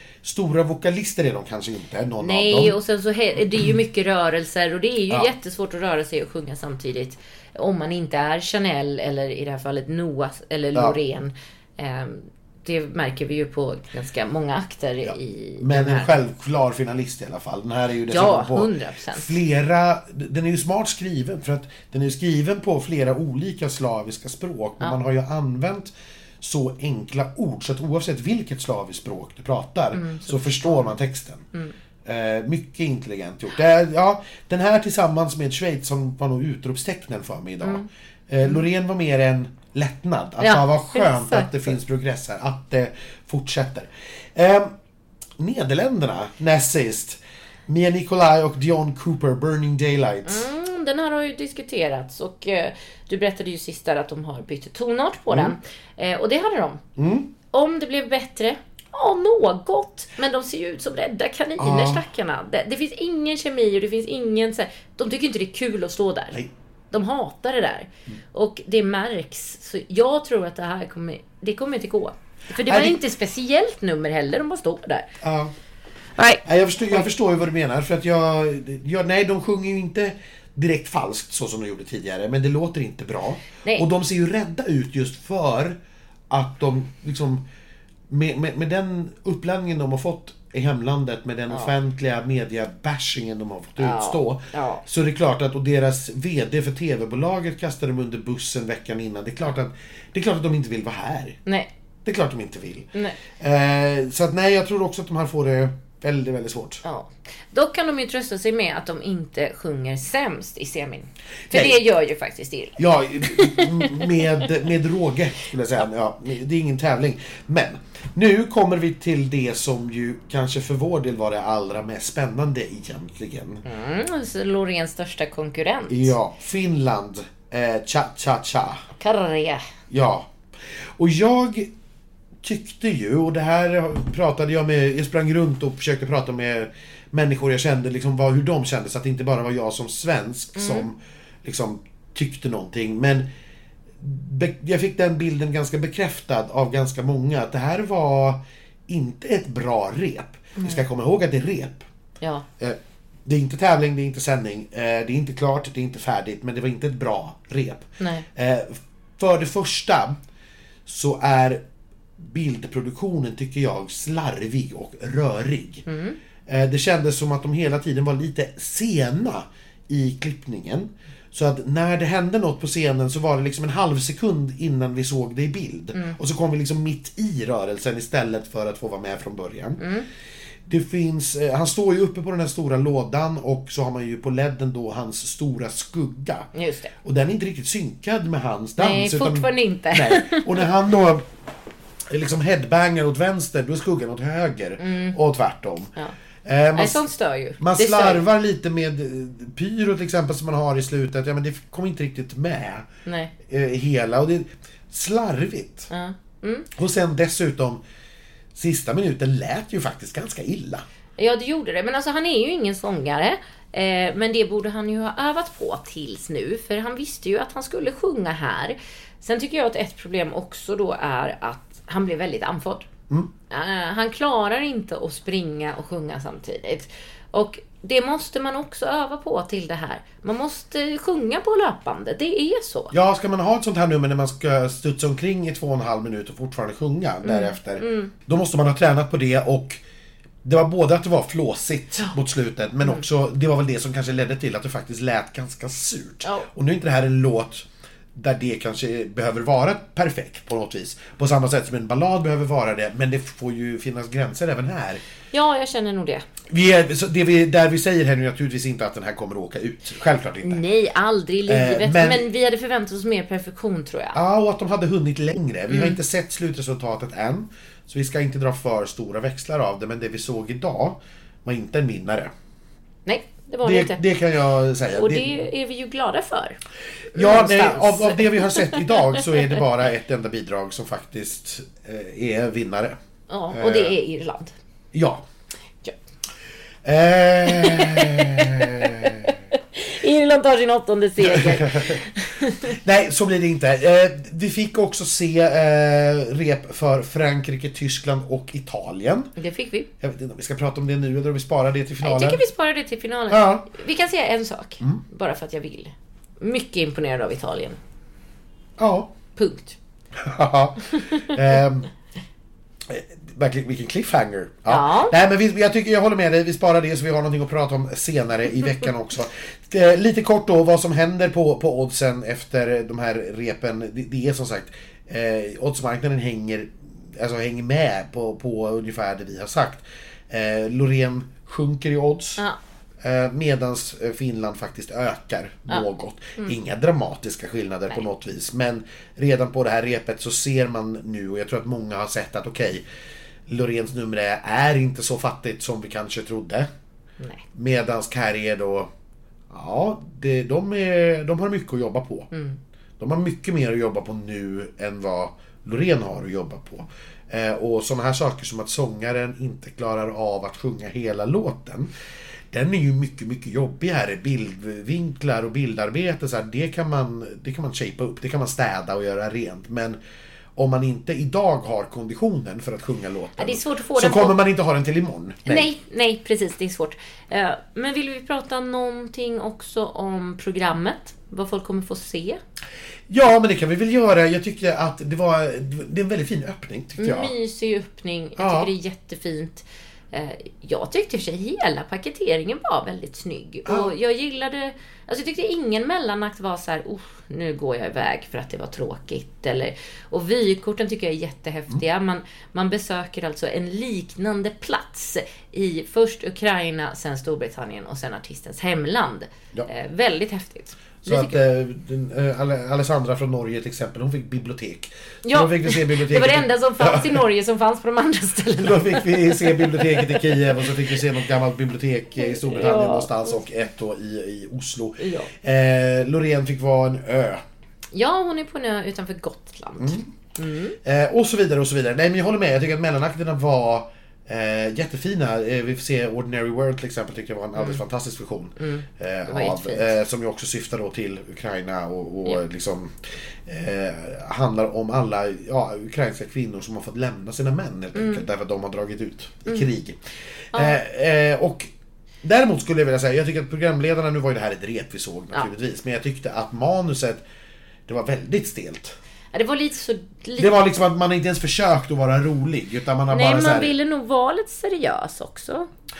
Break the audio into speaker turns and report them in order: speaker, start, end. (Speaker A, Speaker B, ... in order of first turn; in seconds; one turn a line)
Speaker A: 0.2-2.8
Speaker B: 2.2-16.1
Speaker A: 15.0-31.5
Speaker B: 18.1-19.4
Speaker B: 29.9-30.9
Speaker A: 32.0-44.7
Speaker B: 40.4-41.5
Speaker A: 45.4-50.5
Speaker B: 50.3-56.8
Speaker A: 55.3-55.5
Speaker A: 57.0-57.3
Speaker B: 57.5-75.1
Speaker A: 61.6-62.0
Speaker A: 72.6-73.0
Speaker A: 75.2-75.5
Speaker A: 76.4-85.8
Speaker A: 86.3-87.4
Speaker A: 88.1-101.4
Speaker B: 93.8-94.8
Speaker A: 102.0-106.8
Speaker B: 106.8-114.3
Speaker A: 111.5-111.8
Speaker A: 112.8-123.6
Speaker B: 123.7-126.1
Speaker A: 125.9-128.8
Speaker B: 129.0-129.6
Speaker A: 129.9-131.7
Speaker A: 132.4-143.2
Speaker B: 140.6-140.8
Speaker A: 144.0-151.8
Speaker B: 152.2-152.5
Speaker A: 152.6-160.2
Speaker B: 158.0-158.3
Speaker A: 160.9-161.6
Speaker A: 162.2-165.9
Speaker B: 165.9-166.2
Speaker A: 166.5-179.8
Speaker B: 179.8-180.1
Speaker A: 180.7-186.5
Speaker B: 186.5-186.9
Speaker A: 187.0-191.3
Speaker B: 188.8-190.7
Speaker A: 192.1-195.9
Speaker B: 194.8-195.2
Speaker A: 196.4-197.0
Speaker B: 196.8-198.3
Speaker A: 197.6-202.9
Speaker B: 203.1-203.3
Speaker A: 203.4-205.9
Speaker B: 205.9-206.7
Speaker A: 206.7-207.8
Speaker A: 208.6-210.8
Speaker B: 211.2-222.9
Speaker B: 223.5-232.9
Speaker A: 232.9-239.8
Speaker B: 237.2-238.1
Speaker A: 240.4-255.0
Speaker B: 255.3-256.3
Speaker A: 256.5-260.6
Speaker B: 260.4-264.2
Speaker A: 261.5-262.2
Speaker A: 264.1-272.3
Speaker B: 265.7-266.0
Speaker B: 273.1-274.0
Speaker A: 273.6-275.4
Speaker B: 274.9-276.6
Speaker B: 277.1-279.2
Speaker A: 277.1-282.9
Speaker B: 283.3-284.5
Speaker A: 283.5-283.9
Speaker A: 284.9-285.2
Speaker A: 286.8-289.4
Speaker B: 287.5-292.8
Speaker A: 291.2-292.0
Speaker A: 292.6-299.3
Speaker B: 299.4-299.9
Speaker A: 300.0-302.4
Speaker B: 302.0-307.8
Speaker A: 303.3-303.7
Speaker A: 308.8-309.1
Speaker B: 309.4-309.8
Speaker A: 310.1-311.9
Speaker B: 310.9-311.3
Speaker A: 312.9-332.4
Speaker B: 314.7-315.1
Speaker A: 333.0-342.8
Speaker A: 343.5-346.7
Speaker A: 347.5-348.9
Speaker A: 349.5-352.3
Speaker B: 352.3-352.6
Speaker A: 353.0-361.9
Speaker A: 362.5-370.0
Speaker A: 370.6-375.7
Speaker B: 373.4-374.4
Speaker B: 375.5-382.4
Speaker A: 383.1-387.4
Speaker B: 387.0-411.4
Speaker A: 388.4-388.7
Speaker A: 393.7-393.9
Speaker A: 411.1-417.2
Speaker B: 415.2-420.7
Speaker A: 418.6-427.4
Speaker B: 422.2-423.3
Speaker B: 425.0-425.3
Speaker B: 427.9-430.8
Speaker A: 429.8-430.1
Speaker A: 430.8-450.0
Speaker B: 438.6-440.0
Speaker B: 447.9-448.2
Speaker B: 450.5-450.8
Speaker A: 450.5-451.7
Speaker A: 452.2-457.2
Speaker A: 457.9-458.9
Speaker B: 459.3-460.6
Speaker A: 460.4-463.7
Speaker B: 463.1-465.7